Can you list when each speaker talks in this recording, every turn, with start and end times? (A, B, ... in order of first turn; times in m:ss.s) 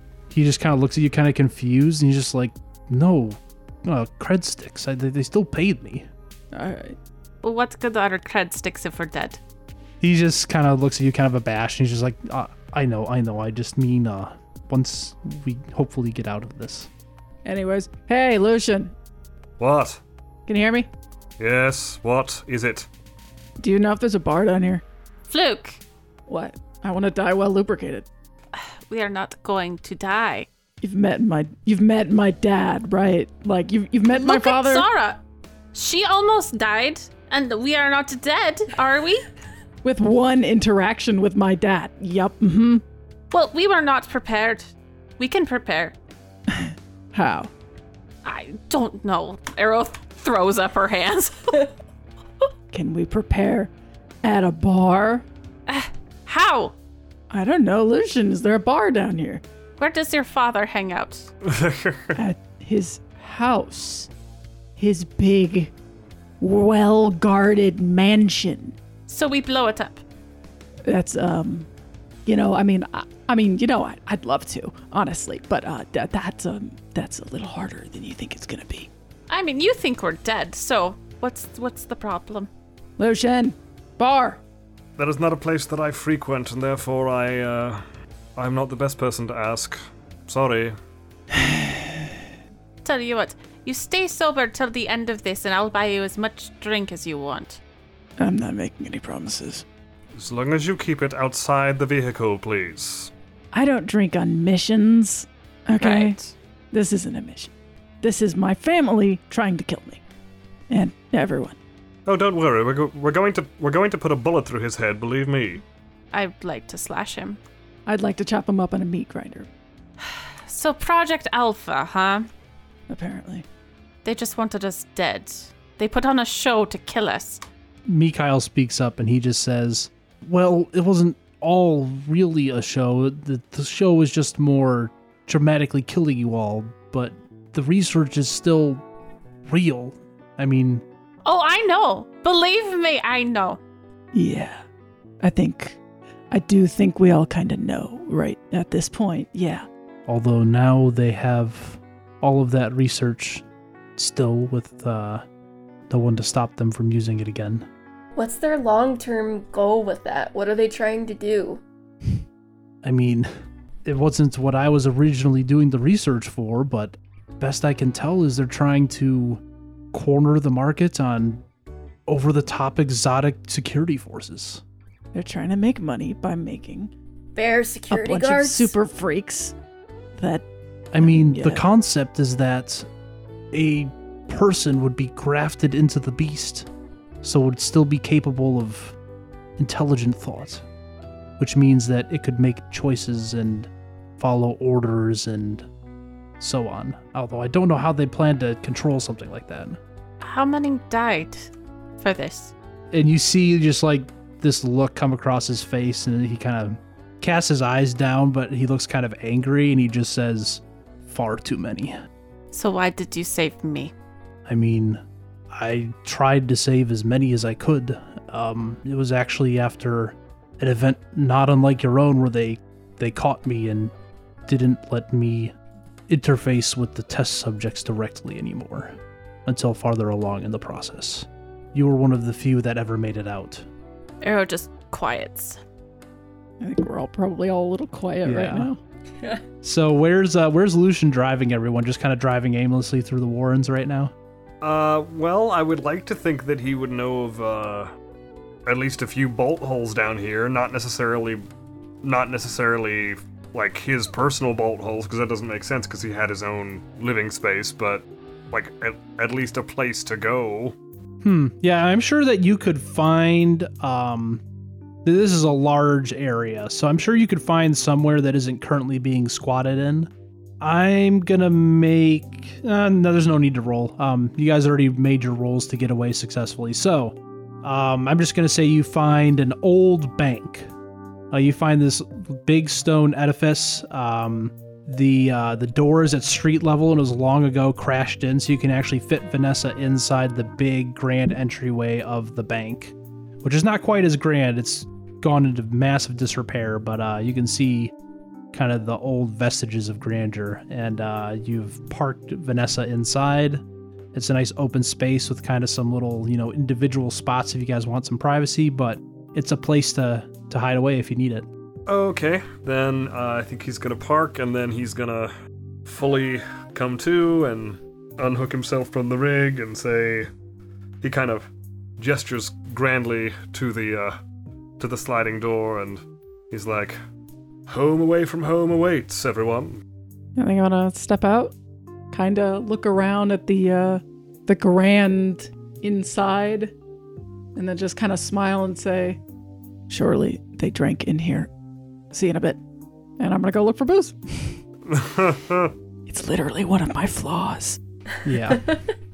0:00.3-0:06.1 A
0:06.5-0:07.0 B
0:07.4-0:09.4 C
0:10.0-0:16.9 A
0:17.4-0:18.9 B
0:19.6-0:20.0 D
0:20.5-0:20.9 B
0:21.4-0:22.9 D
0:23.6-0:24.8 B
0:25.3-0:25.8 C
0:26.3-0:28.1 B
0:28.5-0:30.5 C
0:30.8-0:34.9 B
0:34.1-0:35.2 C
0:35.7-0:39.3 C
0:39.8-0:42.8 B
0:43.3-0:46.0 C
0:46.5-0:47.5 B
0:48.2-0:51.7 C
0:52.7-0:53.7 B
0:54.2-0:55.3 B
0:55.7-0:56.8 C
0:57.3-0:59.4 B
0:59.8-1:01.3 C
1:01.4-1:02.2 D
1:02.2-1:04.1 B
1:04.8-1:05.7 B
1:06.4-1:08.8 B
1:09.1-1:10.0 C
1:10.9-1:11.7 B
1:12.3-1:18.9 B
1:19.3-1:22.5 C
1:23.0-1:24.4 B
1:25.0-1:27.8 D
1:28.4-1:30.8 D
1:31.4-1:32.0 B
1:32.8-1:37.6 C
1:38.2-1:39.6 B
1:40.2-1:43.1 D
1:43.5-1:46.2 B
1:45.8-1:46.3 C
1:46.7-1:50.0 B
1:50.7-1:51.6 B
1:52.1-1:55.6 D
1:56.1-1:57.4 C
1:57.9-1:59.5 B
2:00.0-2:02.3 C
2:02.9-2:03.5 B
2:04.0-2:07.4 C
2:07.8-2:18.8 A
2:19.5-2:20.8 A
2:21.2-2:23.6 C
2:24.1-2:24.6 B
2:25.2-2:25.8 B
2:26.3-2:29.7 B
2:30.1-2:33.4 A
2:34.0-2:35.2 A
2:35.9-2:37.7 A
2:38.2-2:41.6 E
2:42.8-2:43.3 A
2:43.8-2:49.4 A
2:49.9-2:51.4 A
2:52.1-2:54.6 A
2:55.1-2:56.9 B
2:57.4-2:58.7 E
2:57.9-2:59.6 B
3:00.2-3:00.5 B
3:00.9-3:02.9 A
3:01.0-3:01.6 B
3:03.5-3:06.7 A
3:07.2-3:09.0 A
3:09.6-3:10.6 A
3:11.4-3:15.7 A
3:16.4-3:19.8 A
3:20.2-3:22.5 C
3:22.9-3:32.0 A
3:32.5-3:33.9 C
3:34.5-3:35.0 A
3:35.5-3:43.9 A
3:44.5-3:45.5 A
3:46.1-3:48.9 A
3:49.5-3:53.7 A
3:54.2-3:55.6 C
3:56.6-3:58.8 B
3:58.2-3:58.7 A
3:59.6-4:04.1 A
4:04.6-4:07.9 D
4:08.7-4:11.4 D
4:12.0-4:20.8 D
4:21.2-4:24.4 A
4:25.0-4:40.7 A
4:41.3-4:57.9 A
4:58.5-5:03.6 A
5:04.1-5:11.5 A
5:11.9-5:15.3 D
5:15.8-5:20.3 D
5:21.0-5:24.2 D
5:24.8-5:27.0 D
5:27.7-5:29.8 D
5:30.4-5:31.6 B
5:32.1-5:36.8 B
5:37.6-5:39.2 B
5:39.9-5:41.5 B
5:42.1-5:42.6 B
5:43.2-5:44.6 B
5:44.9-5:45.7 D
5:46.1-5:47.8 B
5:48.2-5:48.6 A
5:48.4-5:48.8 E